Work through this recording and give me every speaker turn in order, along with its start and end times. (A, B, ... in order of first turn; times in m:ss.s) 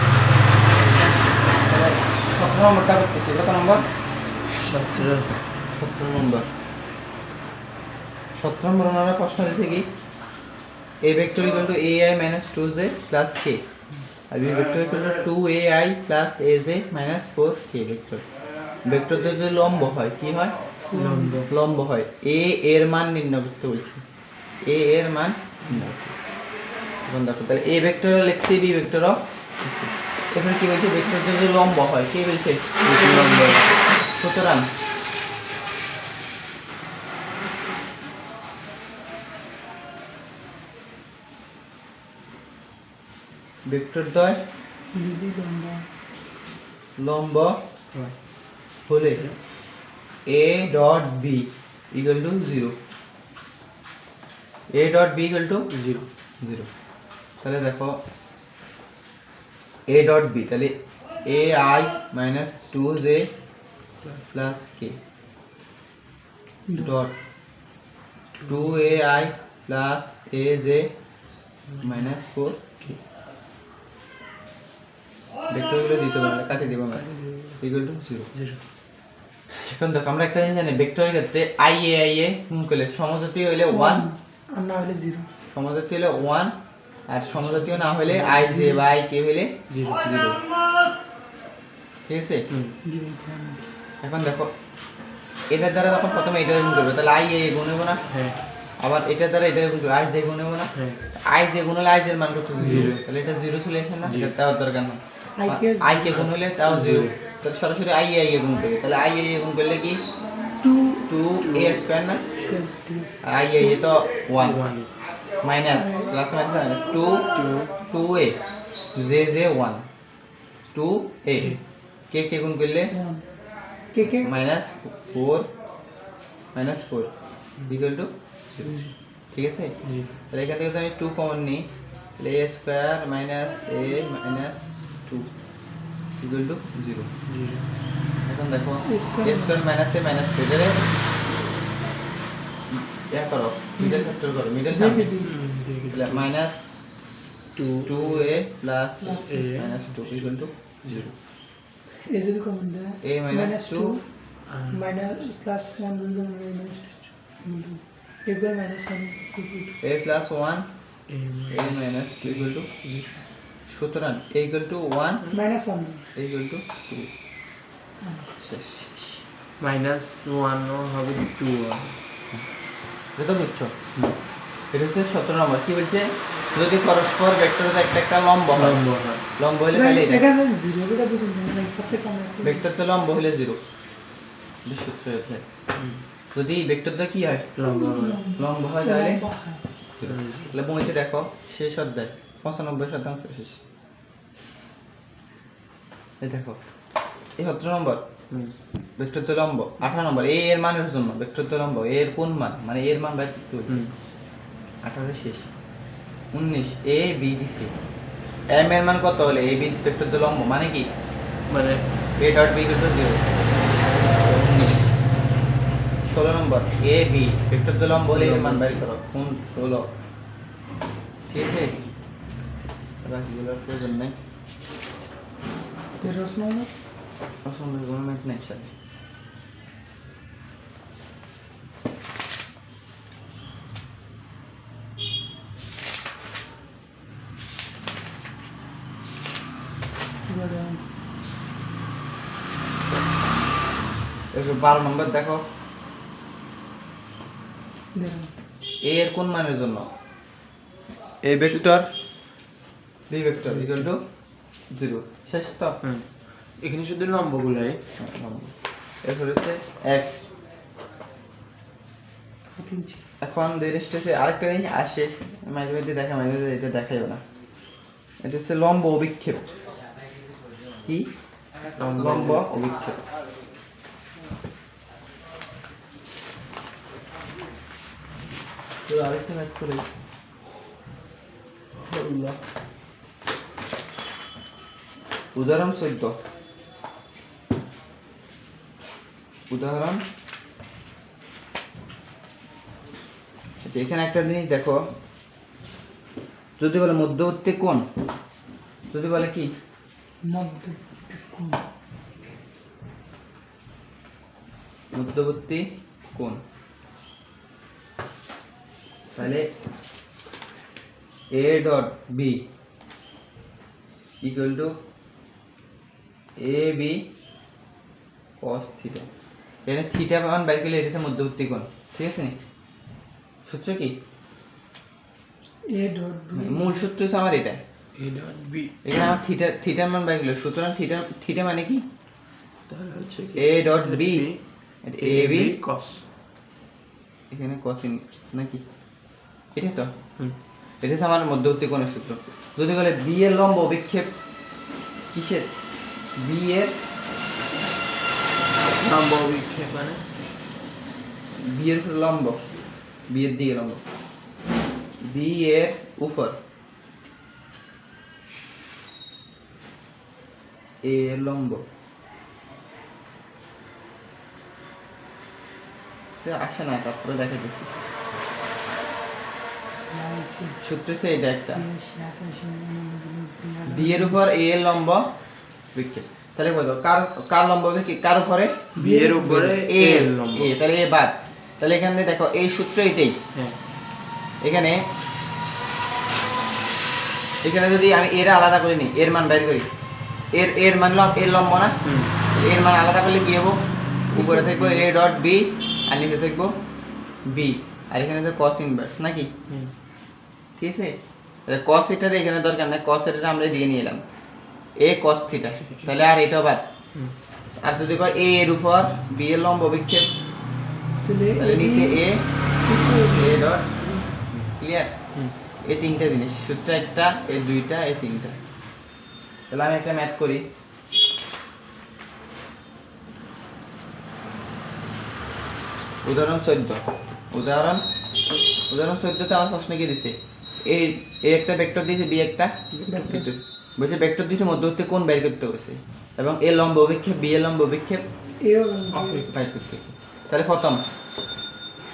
0:01.6-0:03.8 A
0:04.7-0:05.3 B
0:05.7-0:06.5 A
0:08.4-0:09.8 A
0:11.0-0:13.6 A
0:14.3-0:18.2 A
0:18.8-0:20.5 A
0:20.9-0:21.4 C
0:20.9-0:21.5 B
0:21.5-0:24.0 A
0:24.6-0:26.1 A
0:25.6-0:26.0 B
0:27.0-0:32.6 A
0:32.8-0:33.7 B
0:34.2-0:34.7 A
0:43.6-0:44.4 A
0:44.9-0:45.9 C
0:47.0-0:47.6 A
0:48.9-0:49.2 A
0:49.1-0:49.4 B
0:50.2-0:52.7 A
0:54.7-0:55.7 A
0:55.7-0:56.0 B
0:56.4-0:56.7 A
0:57.4-0:58.0 A
0:59.9-1:03.3 A
1:04.3-1:05.0 A
1:06.7-1:06.9 C
1:06.8-1:07.1 A
1:08.4-1:09.1 B
1:08.5-1:10.9 A
1:11.7-1:12.2 B
1:11.8-1:12.6 A
1:15.5-1:17.0 A
1:16.6-1:17.6 B
1:17.6-1:18.3 A
1:18.3-1:18.6 B
1:19.5-1:24.0 A
1:23.7-1:25.3 C
1:25.5-1:26.5 A
1:27.1-1:30.4 A
1:27.4-1:28.6 B
1:28.6-1:28.8 C
1:29.7-1:30.0 B
1:32.1-1:32.5 A
1:32.8-1:33.6 C
1:34.0-1:34.5 A
1:35.5-1:38.0 A
1:38.1-1:38.4 B
1:38.8-1:50.0 A
1:40.7-1:41.0 B
1:42.6-1:43.0 B
1:44.0-1:44.3 B
1:45.4-1:46.1 C
1:46.0-1:47.1 B
1:50.6-1:51.1 C
1:51.1-1:52.2 A
1:51.4-1:52.5 B
1:52.4-1:53.2 C
1:53.2-1:54.6 A
1:54.4-1:54.9 B
1:55.4-1:57.3 A
1:55.7-1:56.2 C
1:57.3-1:57.7 B
1:57.9-1:58.4 A
1:58.9-1:59.8 A
2:00.7-2:01.6 A
2:02.1-2:02.9 A
2:02.9-2:03.2 C
2:03.9-2:04.3 C
2:04.2-2:05.5 A
2:06.5-2:07.1 A
2:07.7-2:08.7 A
2:08.6-2:08.9 B
2:09.3-2:09.7 A
2:09.8-2:10.1 B
2:10.3-2:15.3 A
2:16.2-2:17.1 A
2:17.3-2:17.6 B
2:18.2-2:20.8 A
2:18.8-2:19.6 C
2:22.7-2:25.1 A
2:23.8-2:24.1 C
2:24.7-2:25.3 C
2:25.2-2:26.3 B
2:25.9-2:26.9 A
2:27.6-2:28.4 B
2:27.8-2:31.1 A
2:29.0-2:29.4 C
2:29.2-2:31.0 B
2:32.0-2:34.0 C
2:33.0-2:34.0 A
2:34.5-2:34.8 B
2:34.7-2:39.7 C
2:39.8-2:40.7 A
2:41.1-2:43.1 B
2:41.5-2:42.7 A
2:43.7-2:45.2 A
2:45.3-2:46.1 C
2:46.1-2:47.1 A
2:48.0-2:48.6 C
2:48.4-2:49.2 A
2:49.6-2:52.0 B
2:53.2-2:53.8 A
2:54.7-2:58.8 A
2:58.5-2:59.2 B
2:59.4-3:00.2 A
2:59.7-3:02.6 C
3:02.4-3:03.6 A
3:04.6-3:05.4 A
3:05.8-3:06.0 B
3:06.3-3:07.5 A
3:07.5-3:08.2 B
3:07.6-3:09.6 C
3:08.4-3:09.2 A
3:10.0-3:13.6 A
3:10.0-3:10.6 B
3:16.2-3:16.6 A
3:17.4-3:18.0 A
3:19.0-3:23.8 A
3:24.8-3:25.5 A
3:26.3-3:27.7 A
3:28.5-3:30.9 A
3:31.5-3:31.8 B
3:32.2-3:33.2 A
3:34.0-3:34.8 A
3:36.1-3:39.9 A
3:38.1-3:38.8 B
3:41.3-3:41.7 A
3:43.0-3:44.1 A
3:46.0-3:46.7 C
3:47.4-3:48.7 A
4:00.3-4:00.8 C
4:04.3-4:05.4 A
4:07.9-4:08.3 C
4:08.8-4:09.9 A
4:11.2-4:11.9 A
4:13.1-4:14.0 A
4:13.4-4:13.9 B
4:14.7-4:15.8 A
4:16.6-4:17.8 B
4:18.0-4:20.3 A
4:22.6-4:23.0 C
4:23.2-4:27.2 A
4:28.2-4:29.5 A
4:30.8-4:31.1 A
4:31.7-4:32.4 B
4:31.9-4:33.0 A
4:38.9-4:39.9 A
4:41.9-4:42.3 B
4:45.3-4:46.1 A
4:49.5-4:50.0 A
4:53.6-4:54.8 A
4:56.6-4:57.8 A
4:58.9-4:59.5 A
5:00.3-5:01.6 C
5:04.9-5:06.4 A
5:09.1-5:09.5 A
5:11.3-5:12.4 A
5:14.2-5:14.7 A
5:16.4-5:17.0 A
5:18.4-5:19.1 A
5:19.6-5:22.4 A
5:23.5-5:23.9 A
5:25.7-5:26.7 C
5:26.3-5:27.6 A
5:28.0-5:29.0 B
5:28.8-5:31.8 A
5:32.7-5:34.4 B
5:33.4-5:34.2 A
5:34.8-5:35.5 A
5:35.0-5:36.0 B
5:37.3-5:38.6 A
5:39.5-5:39.9 A
5:40.8-5:44.1 A
5:45.1-5:45.5 A
5:46.2-5:46.7 A
5:48.8-5:50.0 B
5:51.4-5:52.4 A
5:53.1-5:53.8 A
5:55.0-5:56.4 A
6:00.8-6:01.6 A
6:06.2-6:07.7 A
6:09.9-6:10.6 C
6:10.6-6:11.6 A
6:11.5-6:14.2 C
6:13.6-6:15.0 A
6:15.7-6:18.7 A
6:18.7-6:20.5 B
6:18.8-6:19.6 C
6:19.6-6:23.2 A
6:24.4-6:24.8 A
6:27.4-6:29.7 A
6:30.3-6:31.7 A
6:31.8-6:32.2 B
6:32.3-6:33.6 A
6:34.1-6:36.5 A
6:34.2-6:34.9 B
6:37.3-6:39.3 A
6:40.6-6:41.0 A
6:41.5-6:44.0 A
6:44.8-6:46.7 A
6:45.6-6:45.9 B
6:47.6-6:50.1 A
6:51.0-6:52.0 C
6:51.4-6:52.2 A
6:52.6-6:54.0 C
6:53.1-6:53.7 A
6:54.6-6:54.9 A
6:55.6-6:58.4 A
6:59.5-7:00.4 A
7:06.0-7:06.8 A
7:07.3-7:07.8 A
7:08.6-7:10.1 A
7:10.6-7:18.0 A
7:12.9-7:13.3 C
7:18.4-7:19.3 C
7:18.9-7:19.3 B
7:19.3-7:20.8 A